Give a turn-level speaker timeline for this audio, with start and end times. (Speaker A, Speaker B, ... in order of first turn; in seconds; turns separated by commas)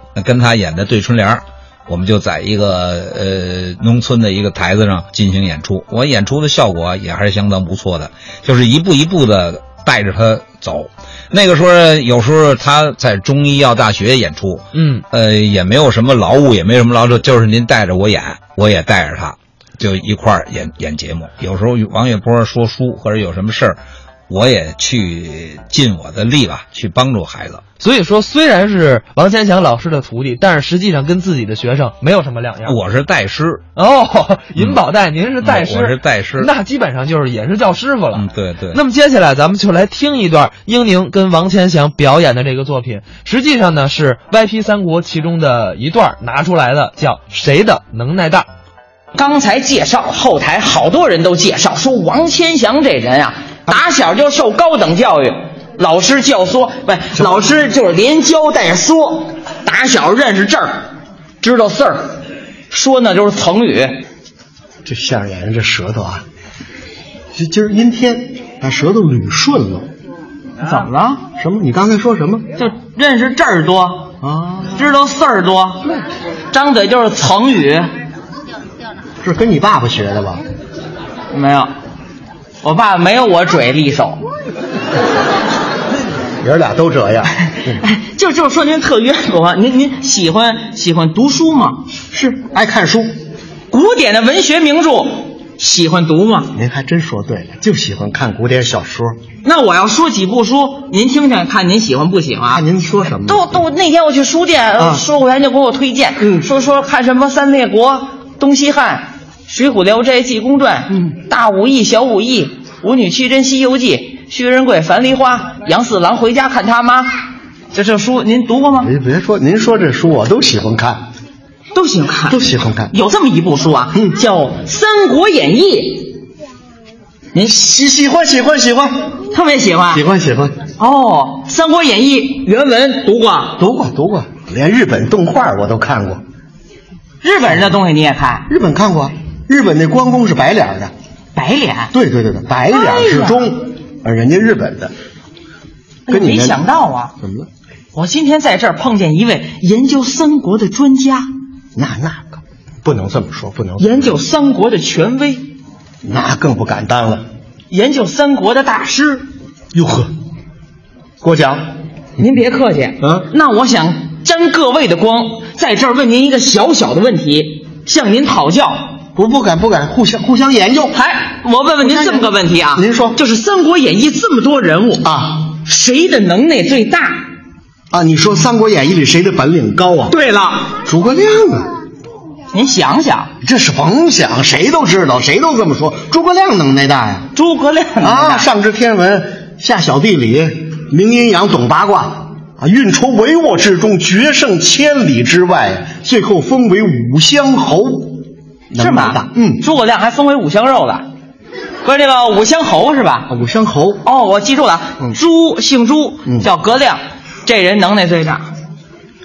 Speaker A: 0.1-27.6, Speaker B: 14.7-15.1, Speaker B: 27.8-32.8, Speaker A: 32.6-33.6, Speaker B: 33.8-48.5, Speaker A: 35.4-36.5, Speaker A: 38.1-38.8, Speaker C: 49.1-60.8, Speaker D: 57.2-57.5, Speaker C: 61.4-62.0, Speaker C: 62.7-63.9, Speaker D: 64.8-66.2, Speaker D: 67.3-69.9, Speaker C: 70.6-71.2, Speaker D: 71.4-72.5, Speaker C: 72.6-74.1, Speaker D: 74.2-74.8, Speaker C: 74.8-75.8, Speaker C: 76.5-77.9, Speaker D: 79.2-80.4, Speaker C: 81.3-81.7, Speaker C: 82.6-84.2, Speaker D: 86.4-87.8, Speaker C: 87.7-91.8, Speaker D: 92.1-93.1, Speaker C: 93.7-96.5, Speaker D: 96.5-99.2, Speaker C: 99.4-117.2, Speaker D: 102.5-103.6, Speaker D: 104.8-105.0, Speaker D: 106.2-106.5, Speaker C: 117.7-118.9, Speaker D: 118.8-121.0, Speaker C: 121.7-122.4, Speaker D: 122.3-122.9, Speaker C: 122.9-126.2, Speaker D: 127.4-129.1, Speaker C: 129.3-130.1, Speaker D: 129.9-130.6, Speaker C: 130.8-133.6, Speaker D: 133.6-136.2, Speaker C: 137.2-138.5, Speaker D: 138.5-140.9, Speaker C: 141.3-141.9, Speaker D: 141.9-144.9, Speaker C: 142.7-143.5, Speaker C: 146.1-147.1, Speaker D: 146.1-146.6, Speaker D: 147.2-147.5, Speaker C: 147.9-151.3, Speaker D: 151.8-154.2, Speaker C: 153.8-155.5, Speaker D: 156.0-157.2, Speaker C: 157.7-159.3, Speaker D: 159.7-160.1, Speaker D: 161.2-161.6, Speaker C: 162.2-168.8, Speaker D: 163.0-163.3, Speaker D: 169.2-170.9, Speaker C: 170.9-177.2, Speaker D: 171.8-173.2, Speaker D: 175.0-175.4, Speaker D: 177.9-180.2, Speaker C: 180.1-180.7, Speaker D: 180.9-181.7, Speaker C: 182.5-183.3, Speaker D: 183.4-187.3, Speaker C: 187.3-188.5, Speaker D: 188.0-198.2, Speaker D: 198.7-199.6, Speaker C: 198.8-201.1, Speaker C: 201.8-203.3, Speaker D: 203.3-204.0, Speaker C: 204.0-208.5